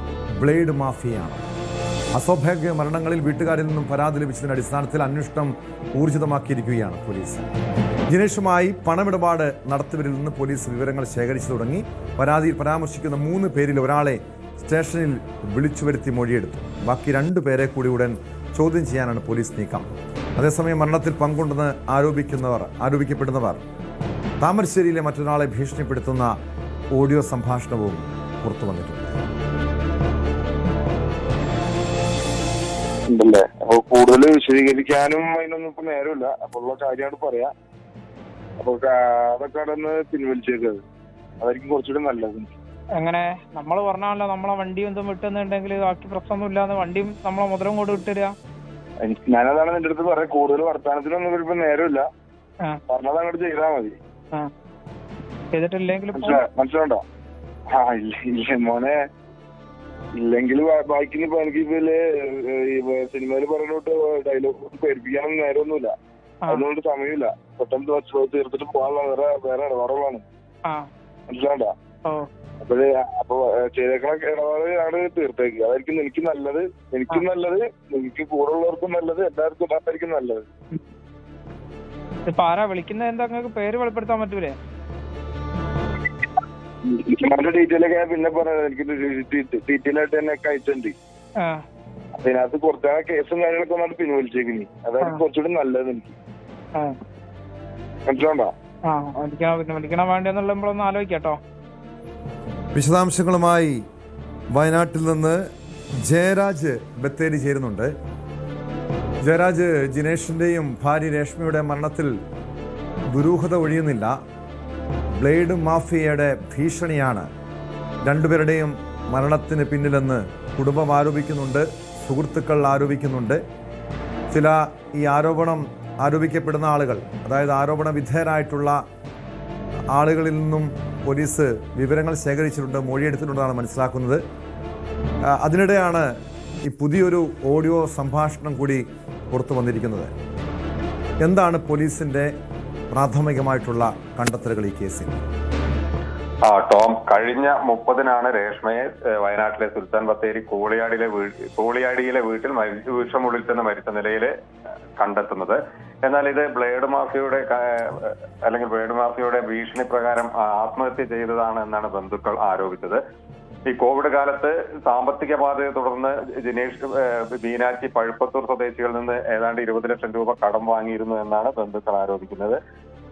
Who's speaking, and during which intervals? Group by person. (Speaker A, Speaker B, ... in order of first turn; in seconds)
Speaker A: 0.4-1.4, 2.1-7.4, 8.1-19.9, 20.4-23.6, 24.4-26.3, 26.9-29.2, 102.7-103.8, 104.5-105.4, 106.0-107.9, 109.2-112.1, 113.1-114.2, 115.2-117.3, 118.0-123.4, 124.3-128.8, 129.9-134.2, 135.3-136.1, 136.7-140.1, 141.2-142.3, 142.9-145.2
Speaker B: 33.1-37.5, 38.6-40.8, 41.4-42.5, 49.0-52.1, 52.9-54.0, 56.1-57.0, 57.7-59.0, 60.1-65.9, 66.5-70.2, 71.3-71.7, 72.6-80.5, 86.8-91.0, 92.2-96.2, 98.1-98.5
Speaker C: 43.0-48.4, 55.5-56.4, 82.3-84.6, 98.8-101.4
Speaker D: 146.5-154.3, 155.0-163.0, 163.7-172.6